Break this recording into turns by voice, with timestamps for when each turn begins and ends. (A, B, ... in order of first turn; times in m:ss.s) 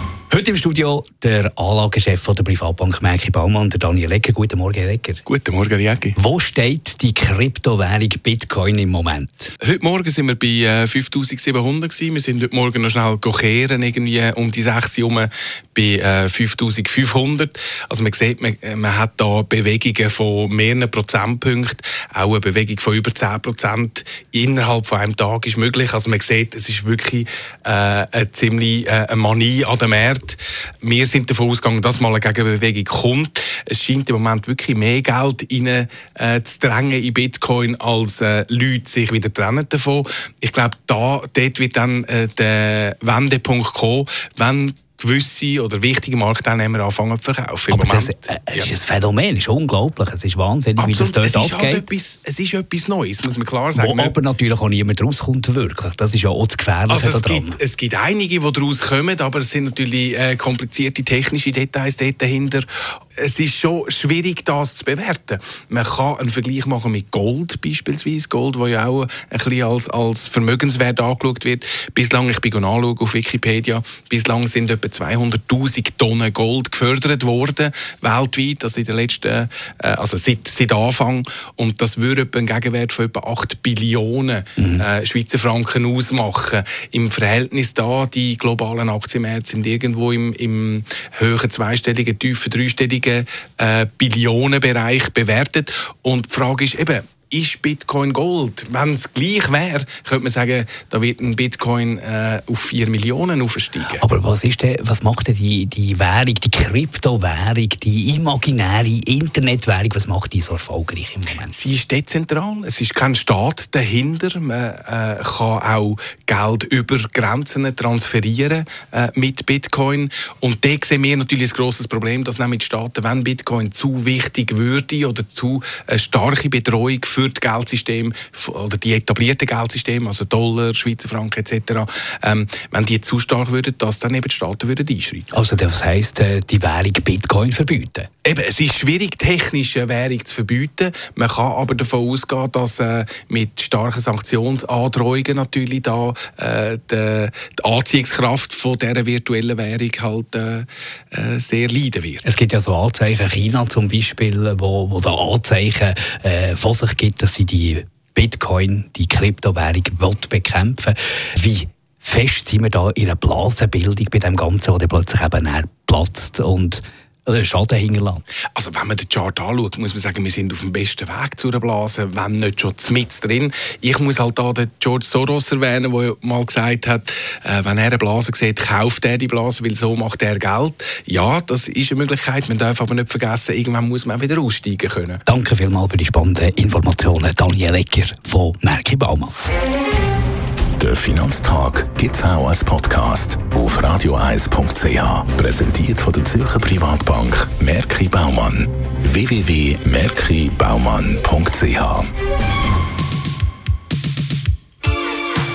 0:00.3-0:05.2 A
0:05.2-0:06.2 B
0:06.2-0:09.5 A
0:09.6-0:48.7 B
0:47.7-0:51.9 A
0:50.8-0:54.1 B
0:53.7-0:57.6 A
0:56.9-1:44.0 B
1:24.6-1:24.8 A
1:43.9-1:51.5 A
1:51.5-2:15.3 B
2:15.3-2:18.1 A
2:18.2-2:32.2 B
2:32.2-2:48.2 A
2:48.5-3:05.2 B
3:05.2-3:09.3 A
3:10.8-3:22.0 C